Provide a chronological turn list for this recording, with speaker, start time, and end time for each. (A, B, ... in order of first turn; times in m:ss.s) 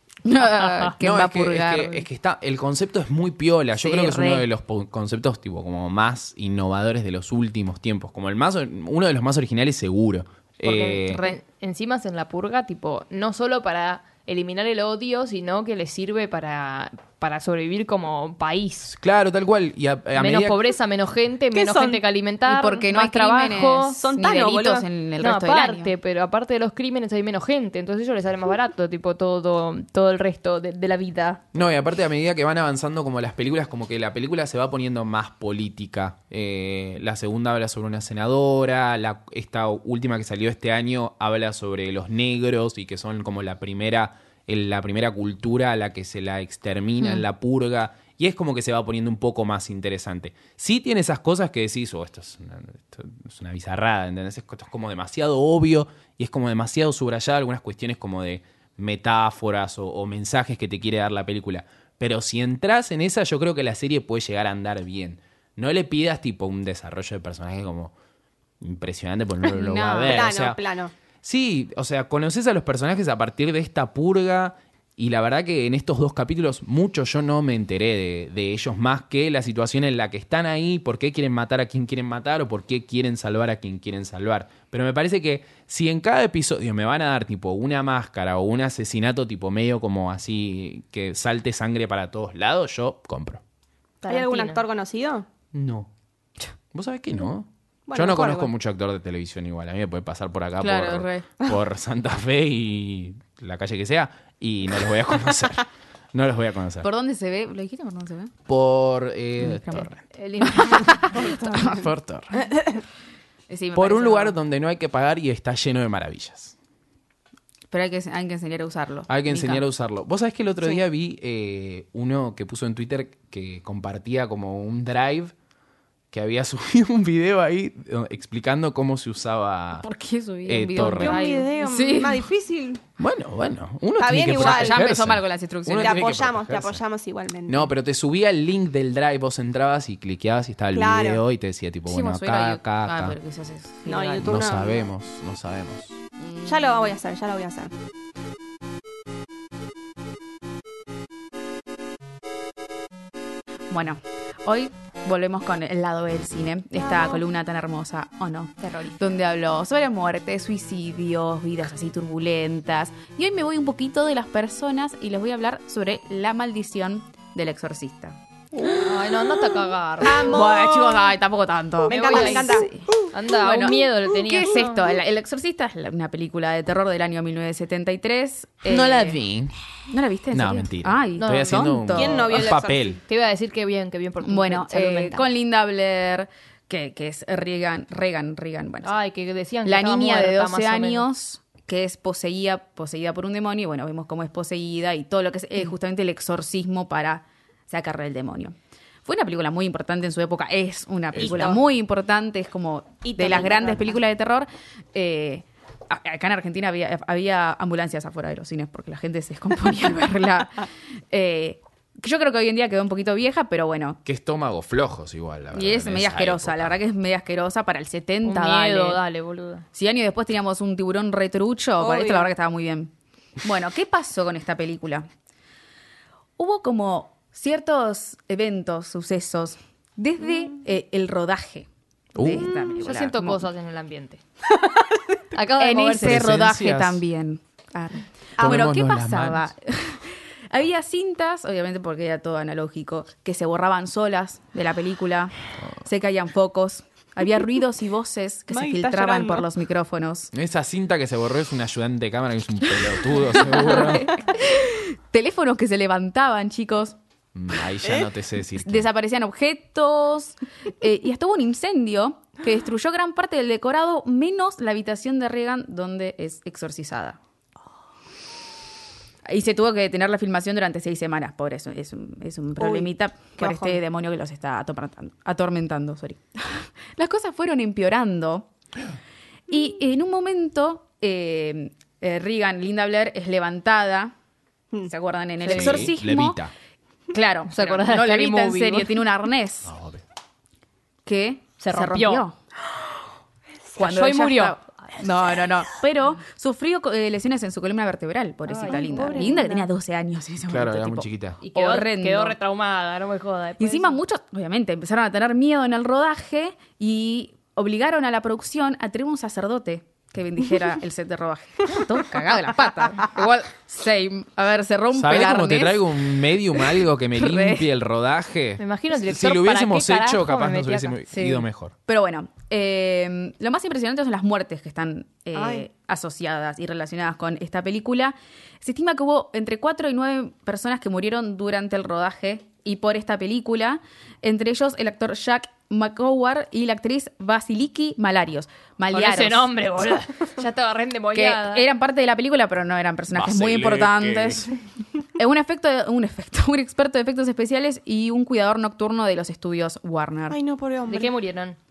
0:00.2-0:02.0 A
0:01.0-0:11.2 B
0:03.8-0:04.4 A
0:10.6-0:18.9 C
0:10.9-0:11.4 A
0:18.9-0:20.6 B
0:20.2-0:24.0 C
0:21.5-0:22.0 D
0:22.4-0:25.9 A
0:24.0-0:24.9 D
0:25.2-0:31.4 C
0:31.5-1:07.9 B
0:47.0-0:47.2 A
1:08.6-1:10.6 B
1:09.4-1:10.3 A
1:10.0-1:10.9 D
1:11.2-1:33.4 B
1:34.0-1:34.6 C
1:34.0-1:35.2 D
1:35.5-1:35.9 B
1:36.7-1:46.9 B
1:37.9-1:38.5 D
1:40.6-1:41.3 A
1:46.8-1:48.3 A
1:48.5-1:50.0 B
1:49.4-1:49.9 A
1:50.1-1:51.4 C
1:50.4-1:51.8 A
1:51.1-1:51.8 D
1:51.6-1:52.4 B
1:53.5-1:54.4 A
1:53.7-1:56.5 B
1:57.7-1:59.6 A
1:59.1-2:05.3 B
2:06.1-2:09.9 B
2:09.8-2:12.3 A
2:10.4-2:11.2 B
2:10.8-2:12.8 D
2:11.1-2:11.5 C
2:13.0-2:16.8 B
2:14.0-2:14.8 D
2:14.3-2:16.0 A
2:15.8-2:17.7 D
2:17.5-2:23.2 B
2:20.7-2:21.2 D
2:21.9-2:24.3 A
2:23.8-2:24.9 D
2:24.2-2:26.0 B
2:26.2-2:26.9 A
2:26.4-2:27.7 D
2:33.7-2:48.2 A
2:36.8-2:37.2 D
2:38.6-2:39.0 C
2:48.6-2:50.4 C
2:50.0-2:51.1 D
2:50.0-2:59.2 A
2:51.8-2:53.1 D
2:51.9-2:54.8 C
2:58.7-2:59.5 B
2:59.9-3:02.2 A
3:00.3-3:03.0 B
3:01.2-3:01.7 C
3:01.9-3:03.0 D
3:02.3-3:05.3 C
3:04.2-3:08.9 A
3:08.8-3:11.0 C
3:09.6-3:18.5 A
3:19.0-3:34.0 A
3:21.1-3:21.6 B
3:21.3-3:21.5 D
3:23.0-3:24.0 D
3:34.0-3:36.7 B
3:35.5-3:39.0 A
3:38.2-3:39.6 C
3:39.7-3:42.9 A
3:41.8-3:42.3 D
3:43.4-3:45.1 A
3:46.4-3:53.4 A
3:52.1-3:52.5 B
3:52.3-3:54.2 C
3:55.3-3:56.3 C
3:55.6-4:10.3 A
3:56.0-3:57.0 B
3:58.4-3:58.7 D
3:58.4-3:59.5 B
4:08.5-4:09.4 D
4:10.3-4:14.2 B
4:13.2-4:17.0 A
4:17.3-4:18.8 B
4:18.6-4:27.2 A
4:29.2-4:38.5 A
4:32.6-4:33.8 D
4:39.5-4:44.1 A
4:44.9-4:46.4 A
4:45.4-4:45.9 C
4:45.5-4:46.5 B
4:47.1-4:49.7 A
4:47.5-4:49.0 C
4:49.7-4:50.0 B
4:51.0-4:52.4 A
4:51.6-4:52.2 C
4:53.8-5:02.4 A
4:53.8-4:54.6 C
4:58.5-4:59.4 C
4:58.5-4:59.7 D
5:00.5-5:01.4 B
5:01.4-5:04.0 C
5:03.6-5:15.9 A
5:14.9-5:21.7 B
5:16.5-5:17.6 A
5:18.6-5:21.0 C
5:21.1-5:39.5 A
5:25.3-5:25.6 D
5:38.9-5:41.6 C
5:41.1-5:44.5 A
5:43.1-5:44.5 B
5:45.1-5:50.4 A
5:50.3-5:51.2 D
5:50.9-5:51.6 C